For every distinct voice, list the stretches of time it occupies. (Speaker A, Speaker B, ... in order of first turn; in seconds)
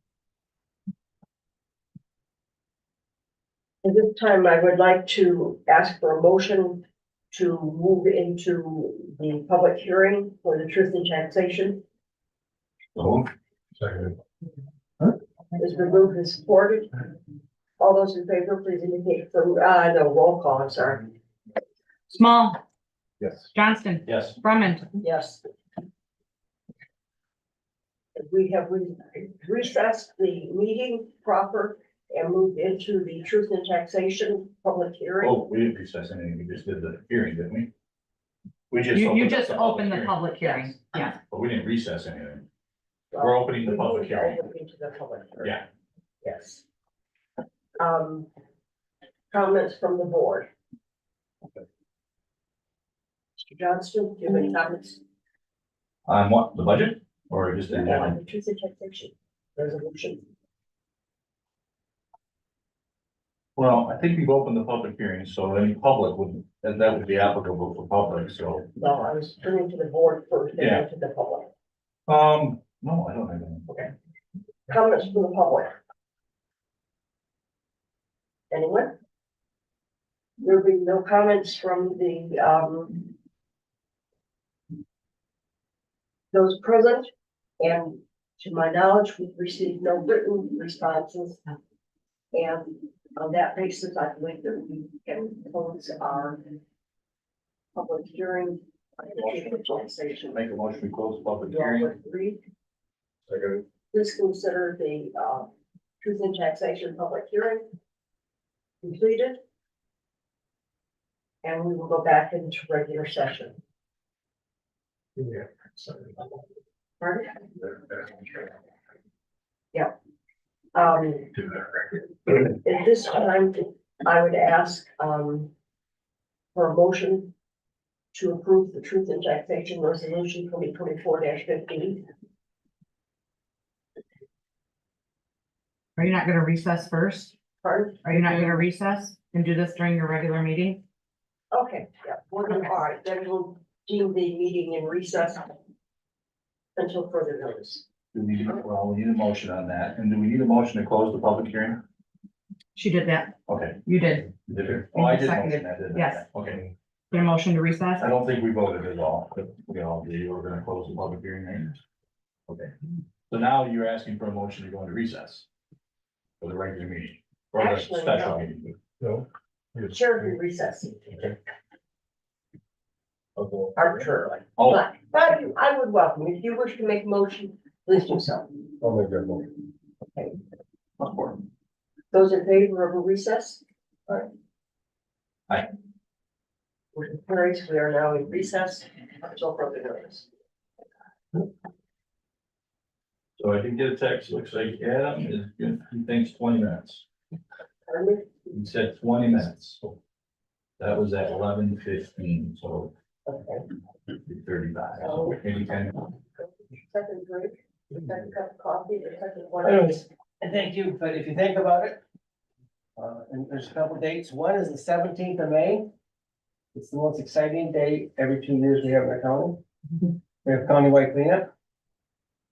Speaker A: 3.8-11.8, 15.6-16.9, 17.8-21.0, 25.0-25.4, 28.1-35.4, 43.1-45.6, 46.2-46.6, 47.8-48.3, 49.3-50.5, 53.5-55.0, 57.7-60.2, 68.8-71.5, 74.7-75.8, 78.5-79.0, 80.4-83.1, 86.3-87.1, 87.6-91.4, 92.3-96.6, 97.8-100.4, 101.5-102.4, 103.9-105.5, 106.0-107.7, 108.8-109.4, 111.4-113.6, 117.0-117.4, 120.7-121.4, 122.3-125.5, 126.5-127.3, 128.1-132.1, 137.6-138.7, 141.5-145.6, 146.8-147.8, 167.6-168.5, 169.9-171.4, 173.8-178.6, 182.1-184.3, 186.9-190.3, 197.9-198.3, 203.3-203.7, 205.0-205.4, 206.4-209.9
Speaker B: 13.0-13.3, 13.8-14.1, 23.2-23.5, 24.1-24.4, 35.2-37.7, 38.7-40.2, 41.3-42.5, 43.2-44.4, 56.1-58.2, 63.6-68.7, 70.6-70.8, 72.1-73.7, 100.3-101.9, 148.1-151.8, 153.5-156.7, 158.0-161.8, 162.5-162.7, 163.3-165.5, 166.4-168.8, 174.6-174.8, 181.0-181.4, 193.4-197.1, 198.5-199.9, 200.8-202.9, 204.2-206.0
Speaker C: 22.1-22.6, 23.5-24.9, 38.9-41.2, 136.0-137.3, 138.1-140.8, 152.8-154.4, 154.9-156.3, 157.1-158.1
Speaker D: 209.6-212.0, 213.0-215.9, 216.8-219.6, 220.4-221.5